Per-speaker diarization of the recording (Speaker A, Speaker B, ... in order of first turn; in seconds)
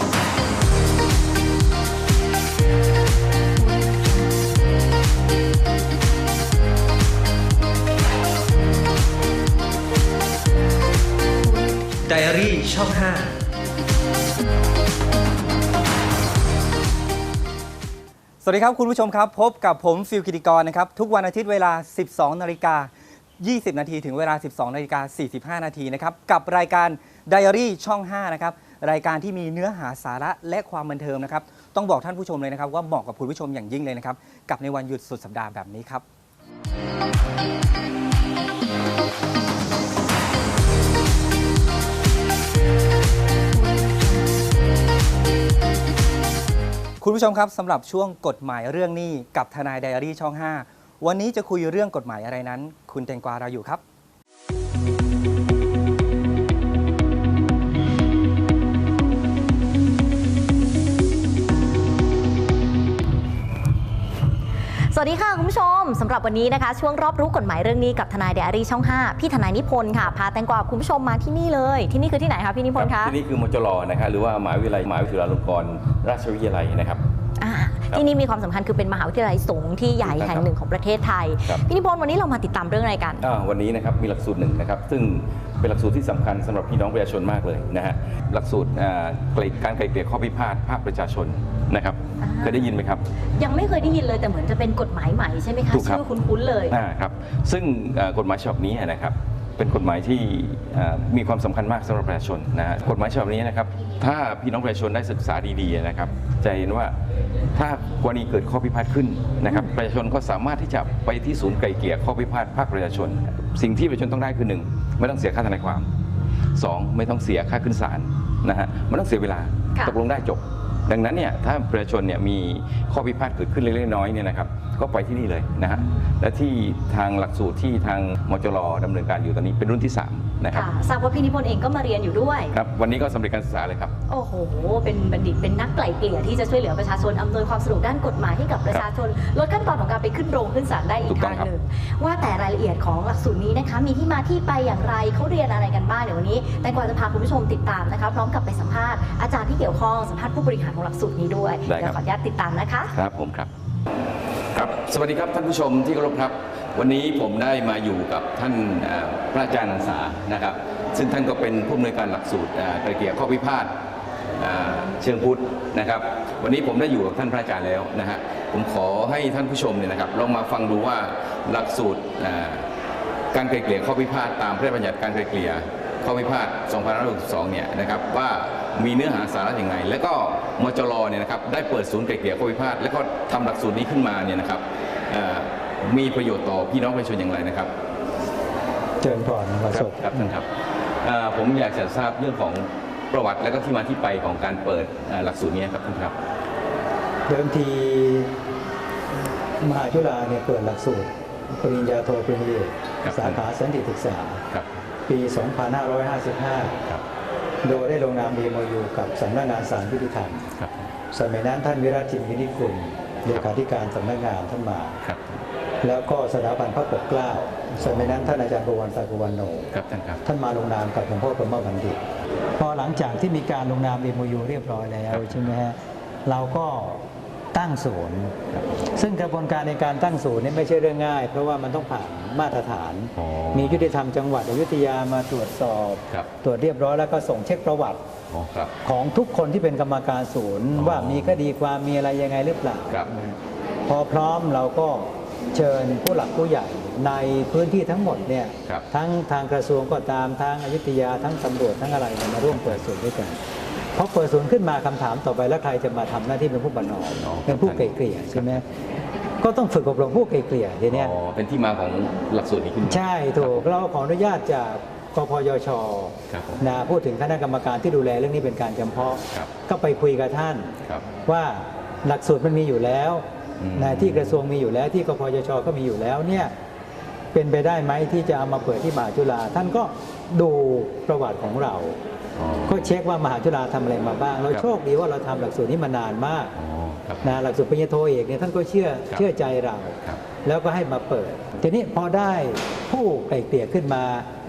Speaker A: 12.0-13.3, 18.4-36.0, 47.0-53.8
Speaker B: 64.9-73.1, 77.4-83.2, 92.2-92.8, 93.4-96.8, 130.5-132.5, 134.1-152.9
Speaker C: 72.8-77.0, 80.0-80.5, 83.2-93.0, 95.7-96.0, 96.7-106.9, 107.5-115.9, 116.5-130.7, 132.5-133.9, 141.1-141.5, 151.7-152.0, 152.9-153.5, 154.5-163.7, 164.4-172.7, 173.3-187.7, 189.7-190.4, 191.0-196.2, 203.0-203.4, 204.5-204.8, 210.6-210.9, 215.0-215.4, 217.7-218.2, 219.7-220.2, 225.1-225.5, 233.2-233.8, 238.3-238.7, 240.8-241.4, 252.5-252.8, 257.2-258.6, 260.9-263.6, 266.3-266.6, 273.6-274.4, 282.4-282.8, 286.6-287.4
Speaker D: 189.0-190.3, 197.3-198.3, 199.6-204.4, 205.1-206.8, 207.6-210.4, 211.1-215.0, 215.8-219.7, 220.2-222.0, 222.6-228.3, 228.9-238.0, 238.8-253.4, 253.9-258.6, 259.4-261.1, 262.8-270.7, 271.2-273.2, 273.8-276.5, 277.3-282.0, 282.6-286.5, 287.2-294.3